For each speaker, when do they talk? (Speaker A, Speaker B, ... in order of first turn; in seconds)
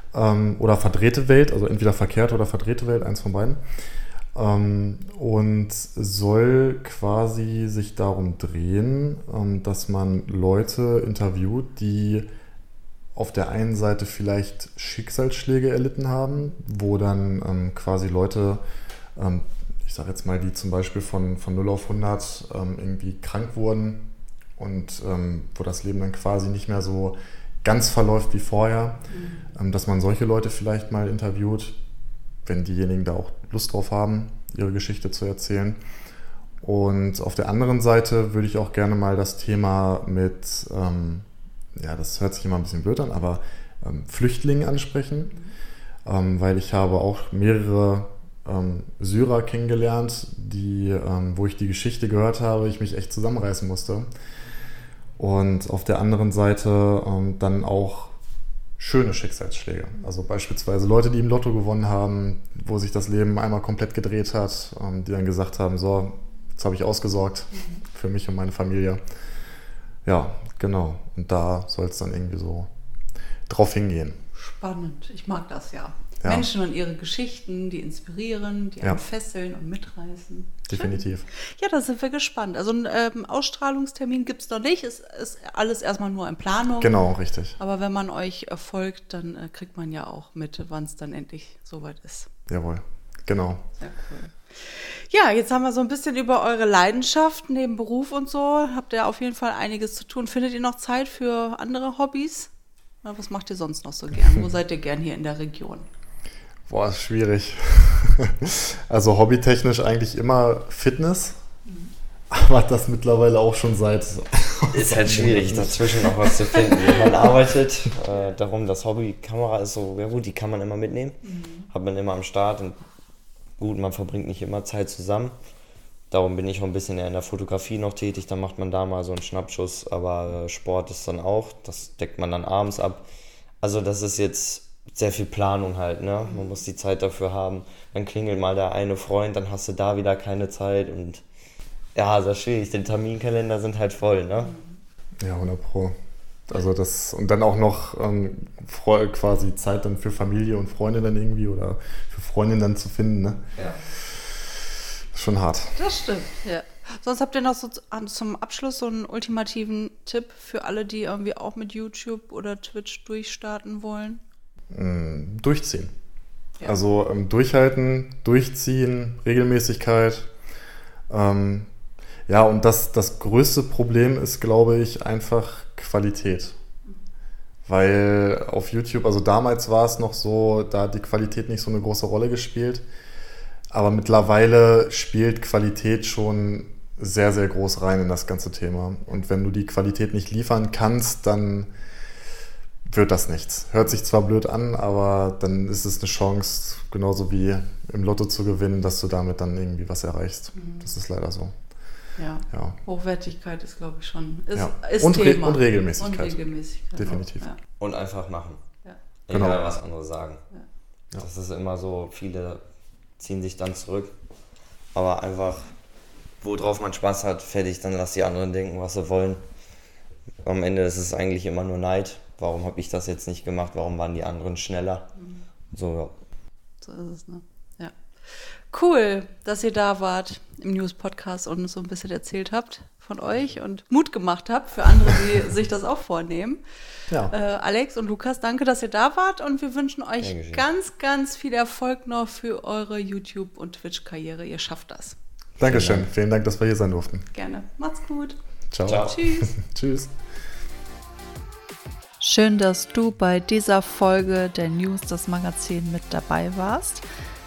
Speaker A: 0.1-3.6, 4.3-12.3, 13.2-18.6, 19.2-29.0, 29.5-31.8, 32.5-35.8, 36.6-45.4, 46.1-54.1, 55.2-58.1, 58.8-69.0, 70.0-72.7, 73.5-74.2, 76.2-76.5, 80.7-81.3, 86.8-87.6, 92.5-93.6, 106.7-111.4, 112.3-116.2, 145.2-145.9, 146.5-153.5, 154.1-154.3, 155.1-155.8, 164.7-165.9, 166.6-170.3, 171.1-171.7, 172.3-176.6, 177.7-182.8, 183.7-191.7, 192.8-201.6, 202.5-202.8, 204.6-206.4, 206.9-207.5, 209.3-209.7, 245.6-247.3, 248.7-250.1
Speaker B: 29.1-29.4, 67.5-67.8, 74.3-87.0, 87.6-92.3, 93.8-102.5, 103.0-105.9, 111.7-111.9, 121.2-121.7, 136.3-136.5, 155.8-164.2, 200.6-200.8, 202.2-207.6, 225.2-225.4, 226.8-236.6, 237.3-245.2, 247.3-249.5, 252.2-257.1
Speaker C: 114.7-122.8, 123.6-125.3, 126.1-133.1, 133.6-141.2, 141.9-144.5, 207.8-208.6, 209.3-210.4, 211.2-212.6, 213.2-214.1, 214.9-215.7, 216.4-219.4, 220.4-225.1, 225.7-226.1, 240.2-240.7, 245.7-246.1, 248.9-249.2